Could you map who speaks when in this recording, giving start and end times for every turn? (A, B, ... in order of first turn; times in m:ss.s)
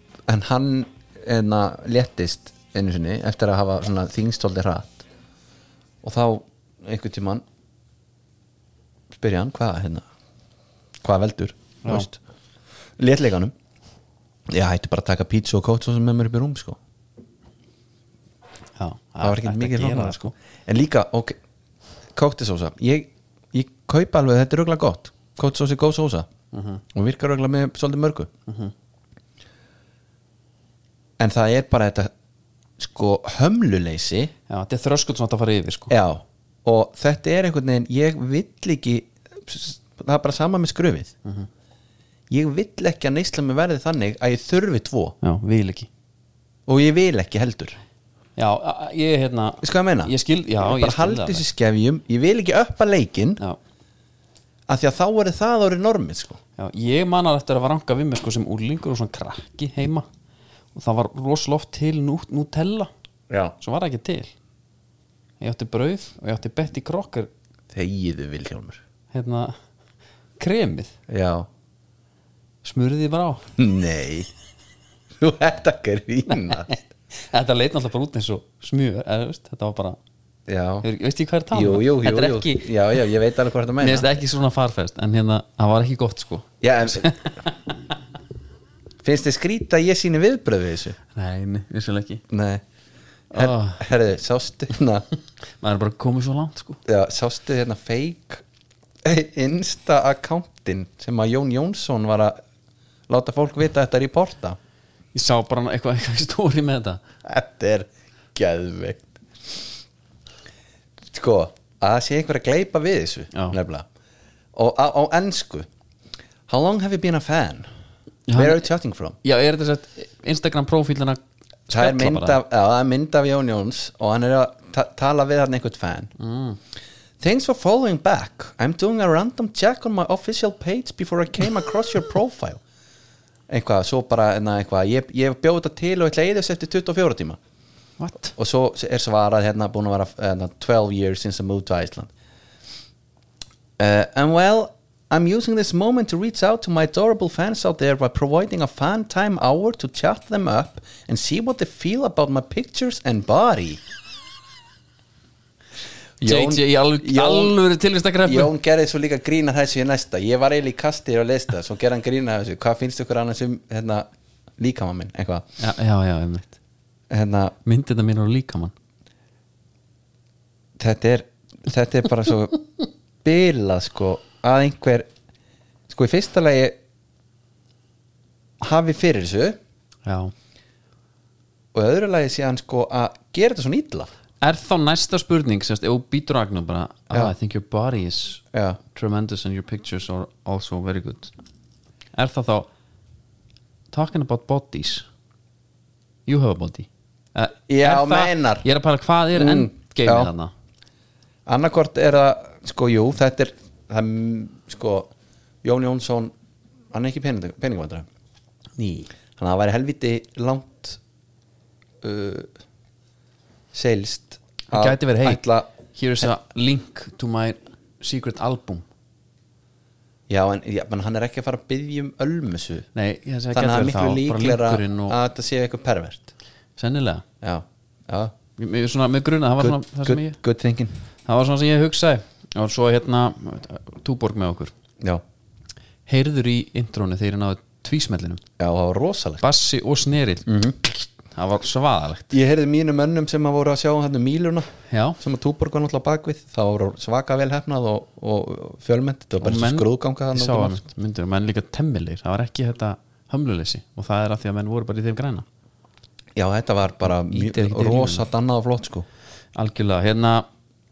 0:00.3-0:05.1 A
0:06.0-0:07.4 A
0:09.1-0:10.1 A
0:11.0-0:12.2 A
0:11.8-0:12.1 B
0:13.0-0:13.5 A
0:14.5-0:16.8 A
0:18.8-0:20.3 B
0:19.2-0:21.4 A
0:22.2-0:26.3 A
0:26.5-0:26.8 B
0:26.9-0:28.3 A
0:28.5-0:28.7 B
0:31.2-0:32.1 A
0:32.8-0:34.3 A
0:34.5-0:35.9 B
0:35.9-0:41.1 A
0:42.3-0:45.2 A
0:45.2-0:45.9 B
0:46.7-0:47.8 A
0:48.4-0:51.4 B
0:49.6-0:53.4 A
0:54.7-0:56.4 A
0:56.6-1:00.1 B
1:00.8-1:02.9 B
1:03.3-1:03.6 A
1:03.6-1:04.3 B
1:05.4-1:07.3 B
1:07.7-1:08.8 A
1:09.1-1:09.6 B
1:10.4-1:10.9 B
1:11.1-1:11.5 A
1:12.6-1:13.5 B
1:13.6-1:14.3 A
1:15.2-1:16.8 A
1:16.3-1:20.0 B
1:20.5-1:20.9 A
1:20.8-1:23.0 B
1:21.5-1:24.1 A
1:23.8-1:27.5 B
1:26.6-1:27.2 A
1:29.0-1:31.0 A
1:31.1-1:32.2 B
1:32.3-1:32.6 A
1:33.3-1:33.8 B
1:33.3-1:35.1 A
1:35.6-1:36.8 B
1:36.9-1:38.4 A
1:39.0-1:42.4 A
1:43.1-1:44.6 A
1:45.1-1:47.0 B
1:47.2-1:49.2 A
1:51.1-1:53.9 A
1:54.5-1:55.7 A
1:56.5-1:57.7 A
1:58.3-1:58.7 B
1:58.3-1:59.2 A
1:59.2-2:02.4 B
2:01.7-2:06.1 A
2:06.2-2:06.6 B
2:07.2-2:12.6 A
2:13.5-2:17.4 A
2:18.0-2:18.3 B
2:18.3-2:22.1 A
2:23.8-2:33.8 A
2:36.2-2:37.6 A
2:36.2-2:38.5 B
2:38.2-2:45.5 A
2:45.6-2:46.6 B
2:47.1-2:47.6 A
2:47.6-2:48.7 B
2:50.8-2:52.6 A
2:53.2-2:55.1 A
2:55.9-2:56.8 A
2:58.6-2:59.6 A
3:00.1-3:00.3 B
3:01.7-3:04.1 A
3:04.4-3:11.3 B
3:08.5-3:08.8 A
3:12.1-3:12.7 B
3:13.9-3:15.1 B
3:16.3-3:20.5 B
3:17.7-3:18.7 A
3:19.3-3:20.3 A
3:21.5-3:25.1 A
3:25.6-3:26.3 A
3:26.9-3:28.1 A
3:28.8-3:31.0 A
3:32.0-3:32.5 A
3:33.7-3:35.7 A
3:34.7-3:35.4 B
3:35.9-3:38.9 B
3:40.3-3:42.9 A
3:43.0-3:45.2 B
3:43.5-3:46.3 A
3:46.8-3:47.2 B
3:47.4-3:48.4 A
3:48.6-3:50.4 B
3:49.6-3:51.0 A
3:51.3-3:54.7 B
3:56.1-3:58.4 B
3:58.6-3:59.4 A
3:59.4-4:02.4 B
4:00.5-4:00.8 A
4:02.3-4:10.8 A
4:04.9-4:05.2 B
4:09.4-4:15.5 B
4:16.4-4:19.1 A
4:17.0-4:18.3 B
4:19.6-4:20.5 B